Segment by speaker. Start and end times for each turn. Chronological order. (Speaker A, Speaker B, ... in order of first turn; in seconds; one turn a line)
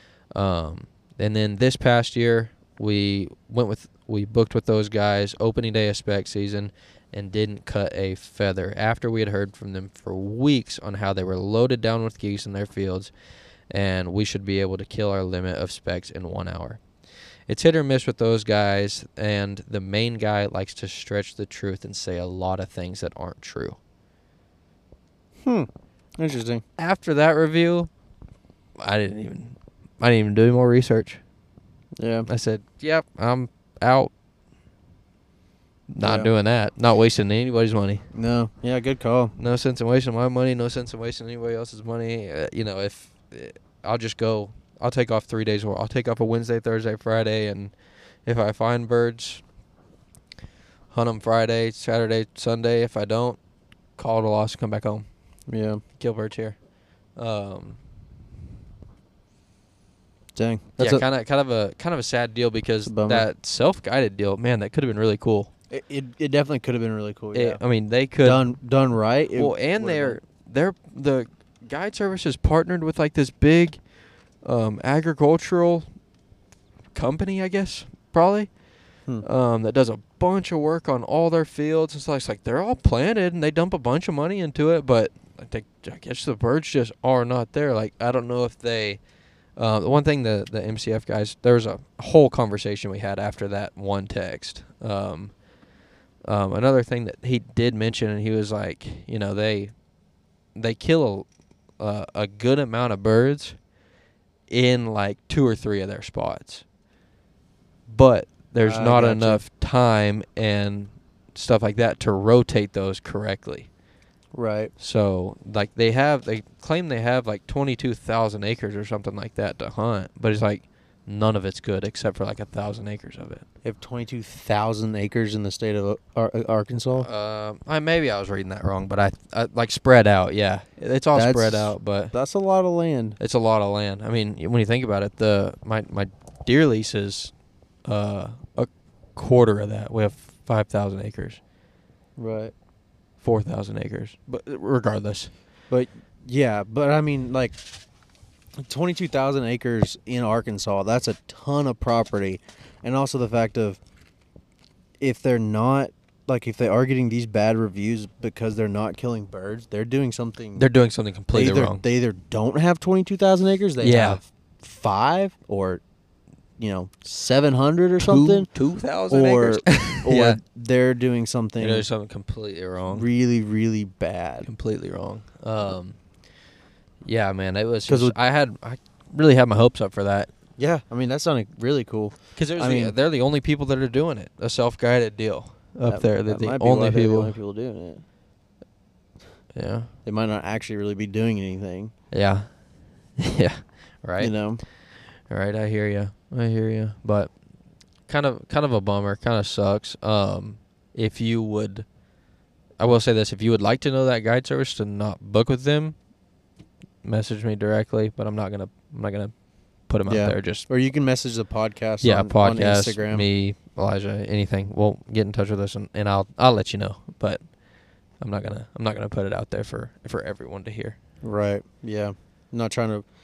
Speaker A: 0.3-13.1
Speaker A: 13.7-16.8
Speaker A: 17.5-23.8
Speaker B: 25.4-26.6
Speaker A: 26.8-27.9
Speaker A: 28.8-31.2
Speaker B: 32.0-32.3
Speaker A: 32.3-34.1
Speaker A: 35.9-38.1
Speaker B: 36.0-36.3
Speaker B: 38.1-39.3
Speaker A: 39.4-47.7
Speaker A: 48.2-49.4
Speaker A: 50.9-53.4
Speaker A: 54.0-55.1
Speaker B: 55.5-55.8
Speaker A: 56.0-56.6
Speaker A: 57.2-57.8
Speaker B: 60.4-61.0
Speaker A: 60.8-65.5
Speaker B: 62.9-63.3
Speaker B: 65.7-67.6
Speaker A: 67.3-68.5
Speaker B: 68.2-70.2
Speaker A: 69.4-73.8
Speaker A: 74.4-75.9
Speaker A: 76.9-78.5
Speaker A: 79.2-89.0
Speaker A: 89.6-95.3
Speaker A: 96.3-99.7
Speaker A: 100.5-101.3
Speaker A: 101.8-103.6
Speaker A: 104.5-106.7
Speaker A: 107.9-113.7
Speaker B: 108.6-109.4
Speaker B: 114.3-114.7
Speaker A: 114.8-123.5
Speaker B: 123.6-127.1
Speaker A: 127.0-132.1
Speaker B: 131.2-133.2
Speaker A: 133.2-137.3
Speaker A: 137.9-141.4
Speaker B: 142.2-142.5
Speaker A: 143.2-145.3
Speaker B: 145.7-147.6
Speaker B: 148.6-153.8
Speaker B: 155.0-160.7
Speaker A: 160.6-161.8
Speaker B: 161.3-165.8
Speaker A: 163.8-164.2
Speaker B: 166.6-168.5
Speaker A: 168.0-170.4
Speaker B: 169.1-171.9
Speaker A: 171.6-173.1
Speaker B: 172.9-174.5
Speaker A: 174.4-176.0
Speaker A: 177.1-180.3
Speaker B: 177.9-178.2
Speaker B: 180.6-182.9
Speaker A: 182.4-187.4
Speaker B: 185.9-188.0
Speaker A: 189.6-189.9
Speaker B: 190.1-191.9
Speaker A: 192.1-192.6
Speaker A: 193.2-194.3
Speaker B: 194.2-194.6
Speaker A: 195.3-197.3
Speaker A: 198.1-201.9
Speaker A: 202.8-206.0
Speaker A: 207.0-209.3
Speaker A: 209.9-210.7
Speaker B: 210.1-213.3
Speaker A: 212.0-217.4
Speaker A: 218.2-221.0
Speaker B: 221.2-223.1